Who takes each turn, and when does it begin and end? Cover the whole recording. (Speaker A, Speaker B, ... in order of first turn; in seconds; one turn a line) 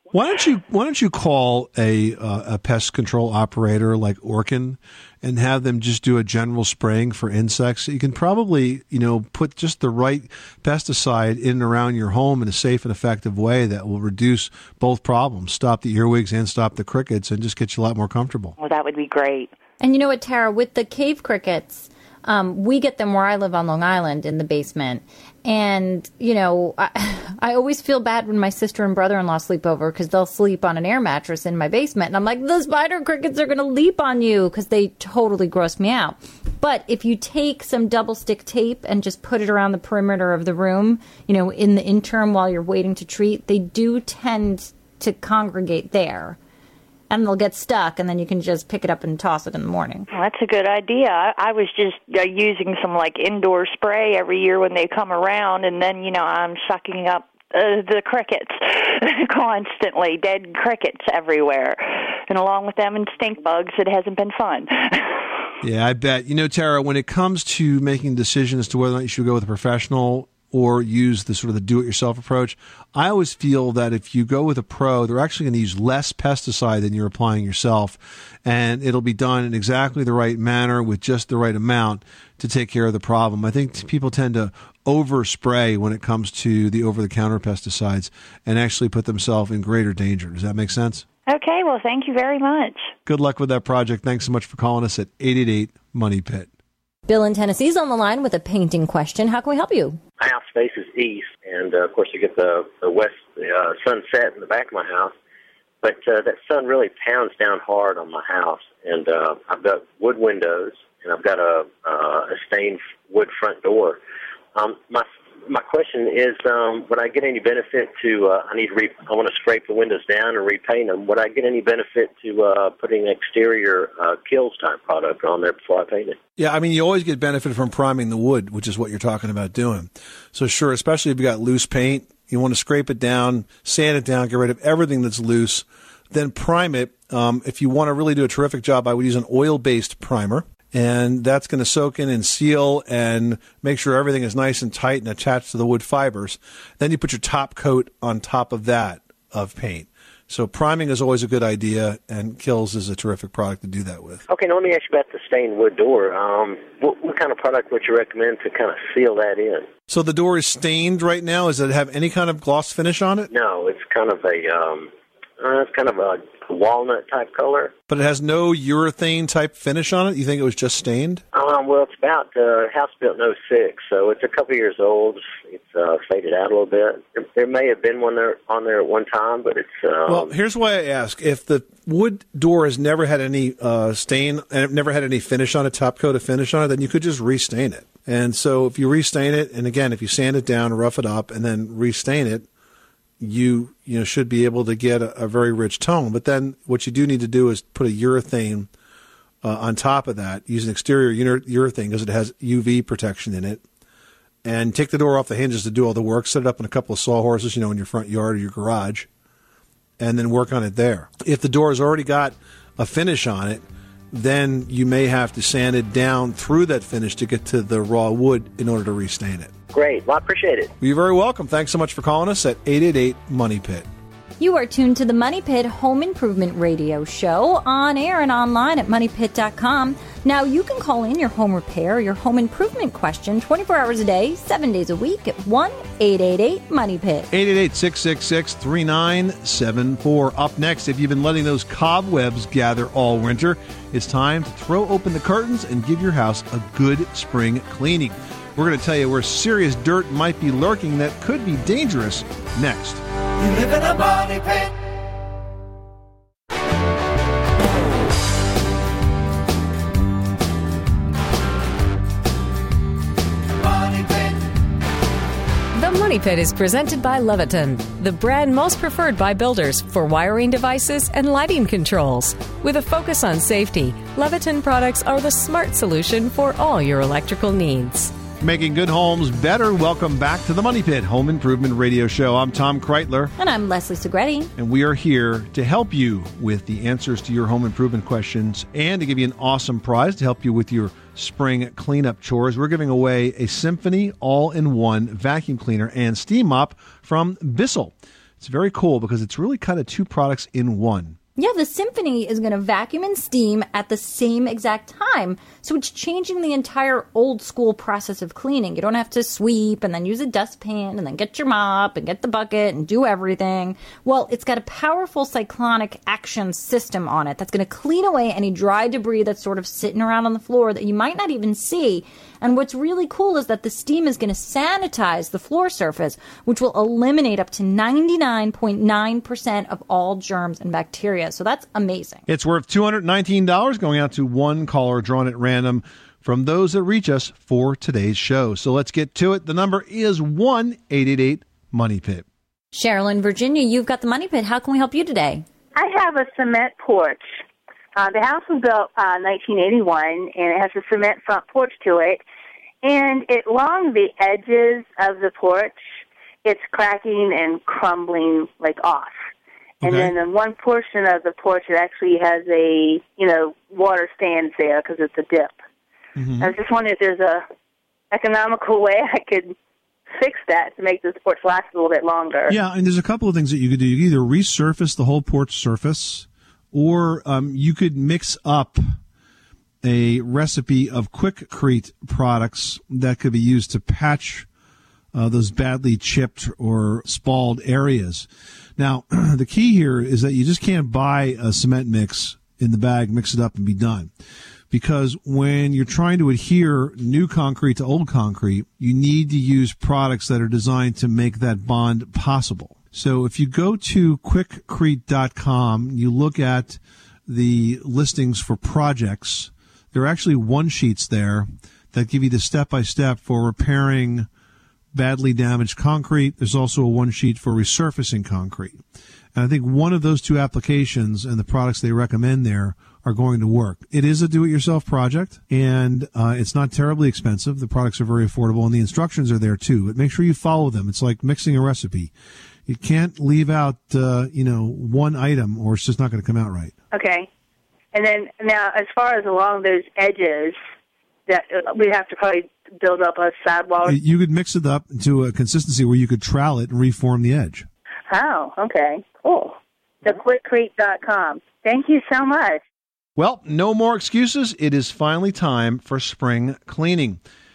Speaker A: 0.1-18.5
Speaker B: 18.6-19.5
Speaker C: 19.8-46.4
Speaker C: 47.1-50.1
Speaker B: 50.1-65.2
Speaker A: 65.6-91.0
Speaker B: 91.3-92.9
Speaker A: 93.0-96.5
Speaker C: 97.1-100.0
Speaker D: 100.2-105.1
Speaker D: 105.8-114.0
Speaker D: 114.5-126.2
Speaker A: 126.4-154.2
Speaker D: 154.3-159.7
Speaker A: 159.9-163.3
Speaker D: 163.3-167.7
Speaker A: 167.9-171.2
Speaker D: 171.3-180.3
Speaker A: 180.1-192.5
Speaker A: 193.2-198.7
Speaker A: 199.4-203.6
Speaker A: 204.4-209.1
Speaker A: 210.0-219.5
Speaker D: 219.7-220.7
Speaker A: 220.8-223.8
Speaker C: 224.4-237.3
Speaker A: 237.3-253.0
Speaker E: 265.7-278.1
Speaker A: 278.4-283.3
Speaker C: 283.4-284.5
Speaker A: 284.6-301.1
Speaker C: 301.4-332.2
Speaker A: 332.3-342.2
Speaker C: 342.7-345.4
Speaker F: 345.7-347.2
Speaker F: 347.9-352.2
Speaker F: 352.8-355.8
Speaker F: 356.4-359.2
Speaker A: 359.8-360.1
Speaker F: 359.8-365.5
Speaker A: 366.2-366.5
Speaker F: 366.4-367.4
Speaker F: 368.1-369.5
Speaker F: 370.1-372.6
Speaker A: 372.5-378.8
Speaker A: 379.8-384.5
Speaker A: 385.1-394.1
Speaker A: 394.7-414.3
Speaker A: 414.9-418.8
Speaker A: 419.3-432.1
Speaker A: 432.6-436.7
Speaker F: 436.9-437.3
Speaker F: 437.9-440.6
Speaker F: 441.3-444.0
Speaker A: 443.8-447.7
Speaker F: 448.1-452.6
Speaker A: 453.2-457.2